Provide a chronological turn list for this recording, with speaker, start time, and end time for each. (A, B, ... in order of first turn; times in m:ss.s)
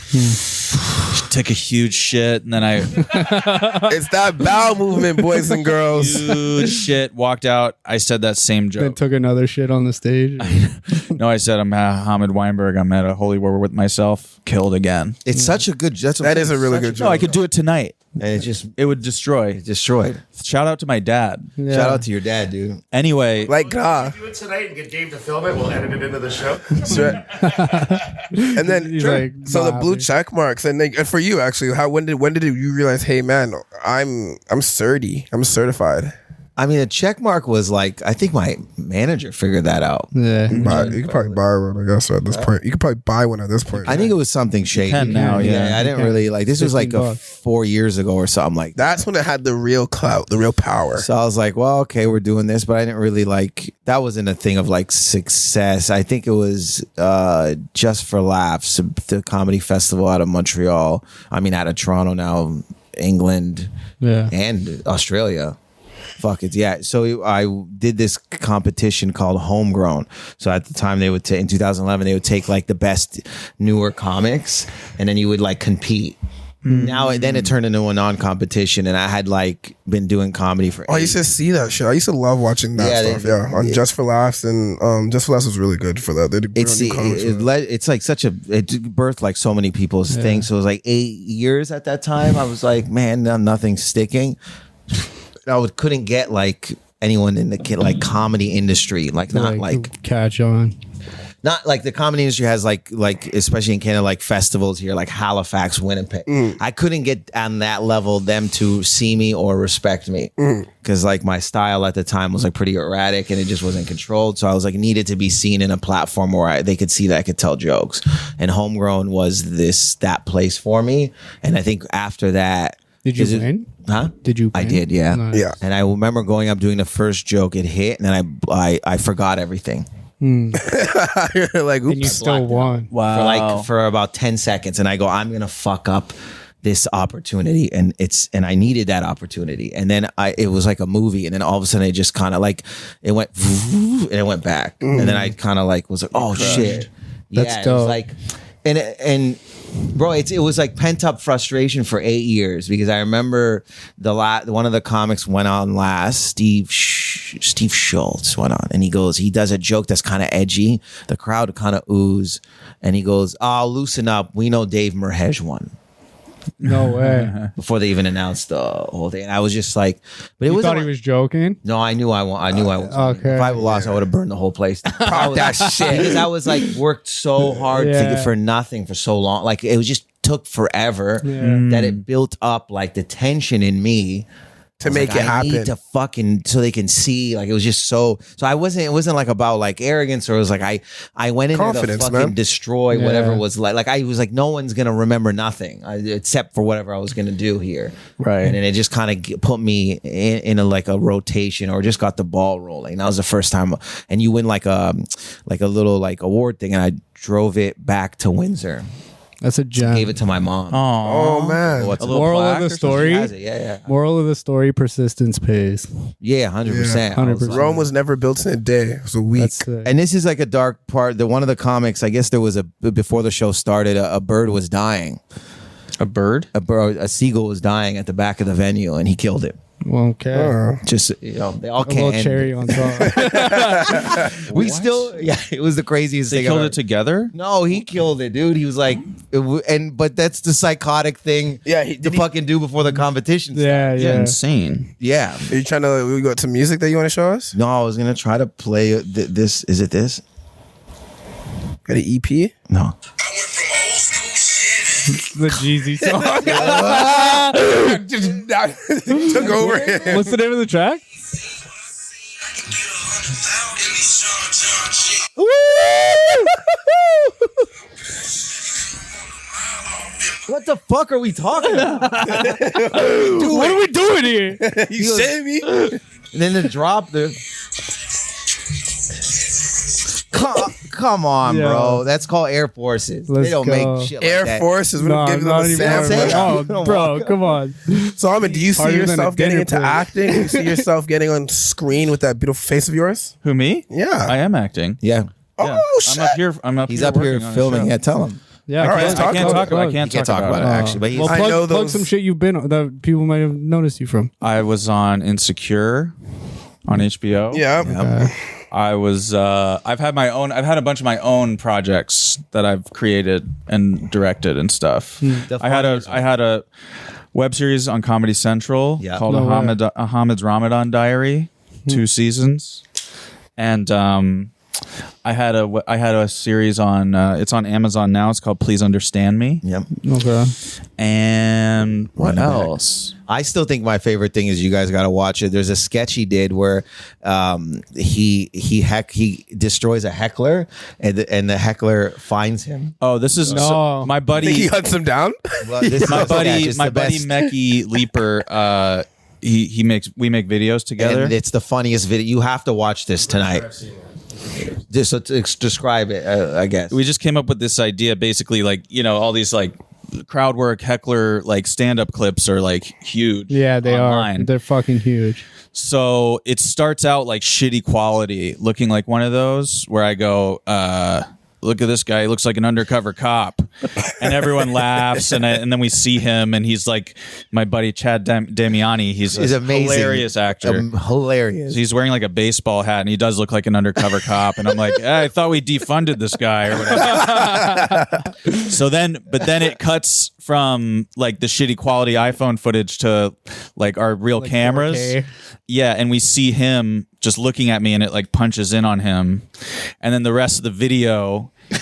0:00.1-0:00.4 A
0:01.0-0:03.3 B
0:03.0-0:03.9 A
0:03.9-0:06.4 C
0:05.8-0:09.0 B
0:08.8-0:10.7 A
0:10.4-0:15.2 B
0:15.3-0:17.4 D
0:16.2-0:17.3 C
0:17.0-0:18.1 B
0:18.2-0:18.8 D
0:18.8-0:19.6 B
0:19.5-0:20.2 D
0:20.4-0:21.6 B
0:21.6-0:22.0 A
0:21.7-0:22.8 D
0:22.9-0:23.5 B
0:23.5-0:24.2 C
0:23.6-0:28.1 E
0:26.8-0:27.3 C
0:27.0-0:30.1 A
0:28.5-0:36.1 C
0:36.6-0:41.4 D
0:40.1-0:40.6 A
0:40.5-0:41.0 B
0:40.6-0:44.1 C
0:43.8-0:49.0 D
0:44.8-0:45.8 B
0:45.0-0:47.2 A
0:48.8-0:51.1 C
0:51.0-1:03.7 D
1:04.0-1:04.3 A
1:04.3-1:05.6 D
1:06.2-1:21.2 D
1:16.6-1:17.5 B
1:20.9-1:27.5 C
1:22.8-1:23.8 D
1:26.6-1:34.4 D
1:30.1-1:30.5 A
1:35.5-1:39.9 D
1:39.3-1:40.8 A
1:41.4-2:09.9 D
1:46.3-1:46.6 C
1:50.4-1:50.7 C
2:03.0-2:03.7 A
2:04.2-2:05.5 A
2:10.2-2:10.6 A
2:10.6-2:12.2 C
2:11.9-2:12.9 A
2:12.0-2:29.4 D
2:12.9-2:13.7 B
2:24.8-2:25.3 C
2:26.2-2:26.9 B
2:27.4-2:28.0 A
2:29.9-2:45.7 D
2:46.6-2:47.5 B
2:46.6-2:47.4 A
2:47.6-2:50.9 D
2:50.5-2:51.6 A
2:51.6-3:04.3 D
2:52.9-2:53.6 A
2:53.6-2:54.0 C
2:55.0-2:56.6 A
2:55.1-2:56.3 C
2:57.7-2:58.3 A
3:01.2-3:01.6 A
3:01.4-3:02.0 B
3:04.8-3:05.7 C
3:04.8-3:28.9 D
3:11.5-3:12.4 C
3:12.9-3:13.4 A
3:18.2-3:18.5 A
3:29.4-3:30.2 A
3:29.8-3:30.9 D
3:30.7-3:33.3 B
3:31.0-3:32.0 C
3:31.7-3:33.9 D
3:32.1-3:33.3 A
3:33.9-3:35.9 A
3:36.2-3:37.8 D
3:36.7-3:39.6 C
3:37.1-3:37.9 A
3:39.4-3:39.9 A
3:39.8-3:45.2 D
3:46.0-3:46.5 B
3:46.5-3:49.6 D
3:49.8-3:50.6 A
3:50.3-3:50.8 C
3:50.8-3:56.8 D
3:51.8-3:54.1 A
3:53.0-3:54.4 C
3:53.9-3:55.1 B
3:56.3-3:57.3 B
3:57.3-4:04.3 D
4:01.7-4:02.3 C
4:03.5-4:04.4 A
4:04.0-4:04.9 B
4:05.0-4:05.5 D
4:05.5-4:07.6 C
4:07.5-4:10.2 D
4:11.9-4:12.5 C
4:12.7-4:13.0 D
4:13.7-4:15.3 C
4:15.1-4:18.0 A
4:16.0-4:20.4 C
4:16.4-4:17.5 D
4:19.1-4:21.0 A
4:19.4-4:20.2 D
4:25.4-4:26.5 A
4:30.4-4:32.4 D
4:31.7-4:34.6 A
4:32.3-4:33.3 C
4:33.0-4:33.9 D
4:34.6-4:36.0 C
4:35.0-4:35.4 D
4:36.3-4:37.4 D
4:40.2-4:44.7 D
4:41.4-4:42.0 A
4:43.3-4:44.1 A
4:44.2-4:46.6 C
4:45.0-4:50.6 A
4:45.7-4:47.6 D
4:48.2-4:53.3 C
4:53.4-4:55.0 B
4:53.9-4:54.3 C
4:55.0-4:55.3 D
4:55.6-4:56.4 C
4:55.6-4:57.9 B
4:56.9-4:58.4 D
4:58.7-5:04.3 A
4:58.8-4:59.7 C
4:58.8-5:00.8 B
4:59.0-5:01.6 D
5:01.2-5:02.1 C
5:04.4-5:06.1 B
5:06.8-5:07.7 B
5:07.5-5:08.3 C
5:07.8-5:08.2 D
5:07.9-5:08.3 A
5:08.7-5:16.6 B
5:15.2-5:15.5 A
5:15.5-5:16.2 D
5:17.3-5:22.8 B
5:19.3-5:19.8 A
5:23.6-5:24.5 B
5:25.2-5:29.6 B
5:29.6-5:29.9 D
5:30.0-5:30.5 A
5:31.0-5:33.1 B
5:32.2-5:32.7 D
5:33.3-5:43.8 D
5:43.0-5:44.7 B
5:43.5-5:44.1 A
5:44.3-5:46.6 C
5:45.6-5:47.3 D
5:46.0-5:51.4 B
5:51.0-5:53.7 D
5:53.4-5:54.7 E
5:54.8-5:57.0 D
5:56.9-6:04.5 B
6:03.5-6:05.4 A
6:05.7-6:20.8 B
6:19.3-6:21.8 D
6:21.7-6:35.2 B
6:27.1-6:27.8 A
6:34.4-6:35.3 A
6:35.7-6:39.4 B
6:40.0-6:41.5 B